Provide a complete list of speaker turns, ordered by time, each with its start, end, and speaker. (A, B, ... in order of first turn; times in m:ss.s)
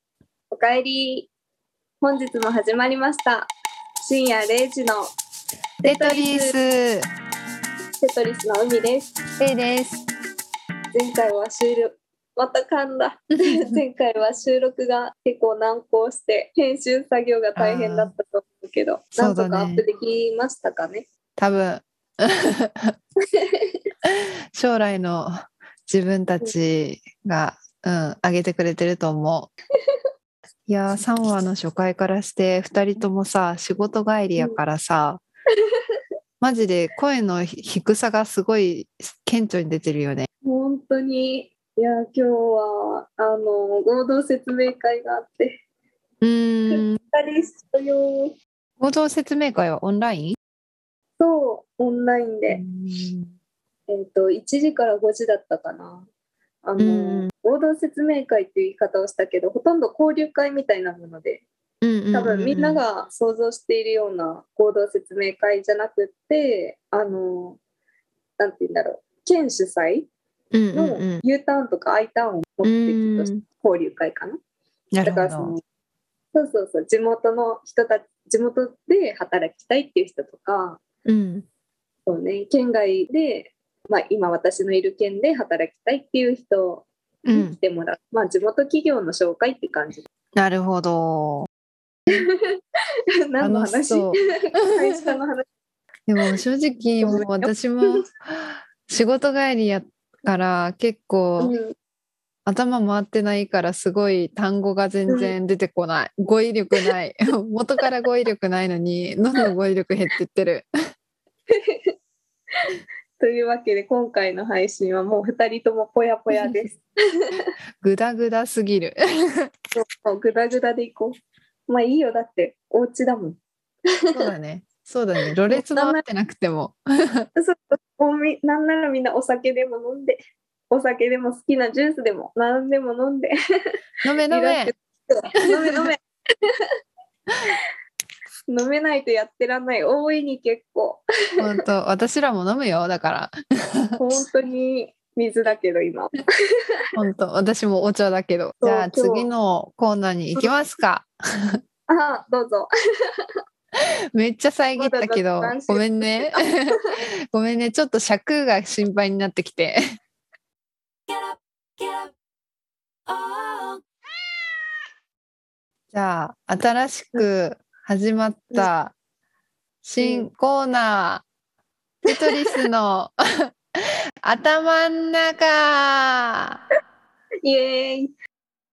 0:00.5-0:01.3 A
0:02.0-0:05.1 A
0:05.8-0:06.5 A
0:05.8-0:07.1 B
0:08.0-0:09.2 A
0:09.4-0:10.1 B
0:10.9-0:21.1 A
0:17.6-0:18.1 B
0:19.2-0:19.8 B
0:21.4-0:23.0 B
0:23.2-0:23.8 A
0:24.0-0:25.3 B
0:25.9-0:29.5 B
0:30.7-0:35.2 B
0:36.4-0:40.3 B
0:40.4-0:45.6 A
0:46.2-0:47.0 B
0:46.7-0:48.4 A
0:48.8-0:50.4 B
0:51.2-0:52.6 A
0:52.5-0:53.3 B
0:53.9-0:56.1 A
0:56.6-1:01.4 A
0:56.8-0:57.3 B
1:01.8-1:02.8 B
1:02.1-1:07.6 A
1:08.4-1:10.1 A
1:10.5-1:11.2 B
1:10.7-1:14.4 A
1:12.6-1:13.4 B
1:14.9-1:15.6 B
1:15.0-1:15.6 A
1:16.3-1:20.8 A
1:21.0-1:21.5 B
1:22.1-1:30.1 A
1:27.3-1:27.6 B
1:30.4-1:31.5 B
1:32.1-1:32.4 A
1:33.3-1:35.4 A
1:33.4-1:34.8 B
1:36.1-1:41.5 B
1:37.0-1:37.5 A
1:41.4-1:41.7 A
1:42.5-1:50.7 B
1:45.1-1:45.3 A
1:51.5-1:51.9 A
1:53.2-1:57.5 A
1:57.8-1:59.5 B
1:59.8-2:01.1 A
2:01.7-2:03.4 A
2:04.1-2:07.3 B
2:05.5-2:06.0 A
2:07.4-2:10.2 A
2:10.7-2:13.3 A
2:14.0-2:14.7 B
2:14.3-2:16.5 A
2:15.5-2:15.9 B
2:18.5-2:21.0 A
2:21.4-2:24.0 B
2:24.0-2:26.2 A
2:26.9-2:31.6 B
2:28.6-2:29.3 A
2:31.9-2:32.7 A
2:34.1-2:36.8 B
2:34.8-2:36.9 A
2:37.3-2:39.8 B
2:43.2-2:43.8 A
2:45.9-2:48.9 B
2:49.8-2:51.2 B
2:50.0-2:50.3 A
2:52.0-2:56.6 B
2:52.1-2:52.6 A
2:57.4-2:58.1 A